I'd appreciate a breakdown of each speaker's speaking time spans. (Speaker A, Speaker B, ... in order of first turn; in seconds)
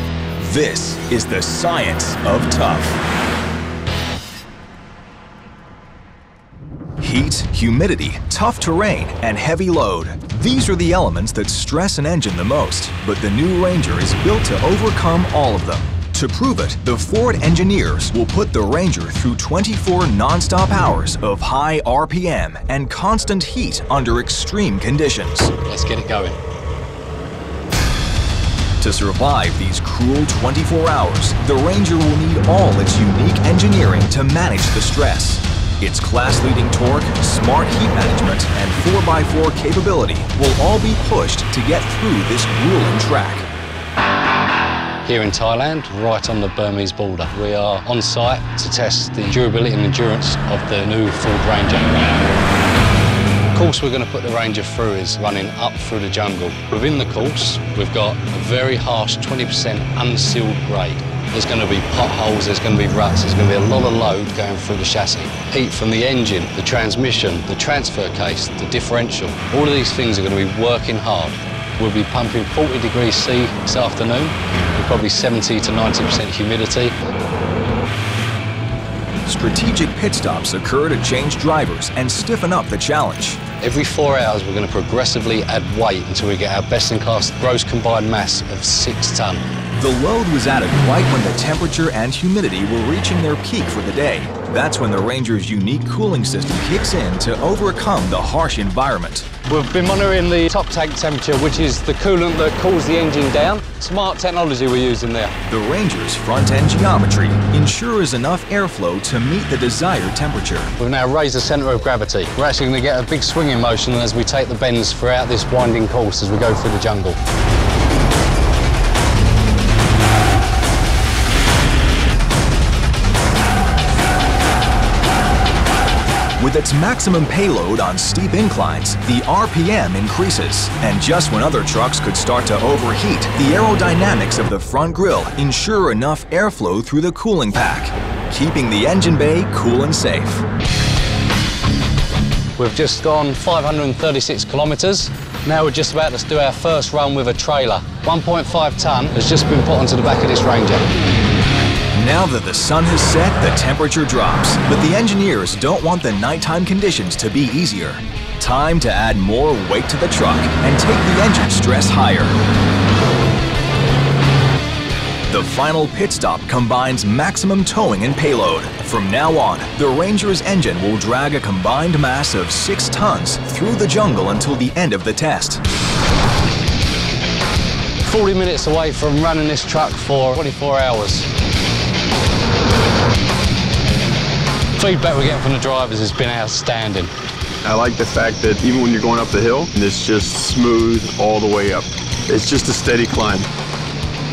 Speaker A: 0.4-3.0, 7.0-25.5, 28.8-43.5, 79.2-83.4, 89.8-99.3, 105.5-110.7, 126.4-140.4, 151.9-162.3, 165.3-175.6
Speaker B: 25.6-26.4, 45.0-52.4, 53.5-76.9, 83.6-89.5, 99.5-105.3, 110.8-117.2, 142.6-150.9, 178.0-181.3, 184.8-187.1
Speaker C: 187.6-193.5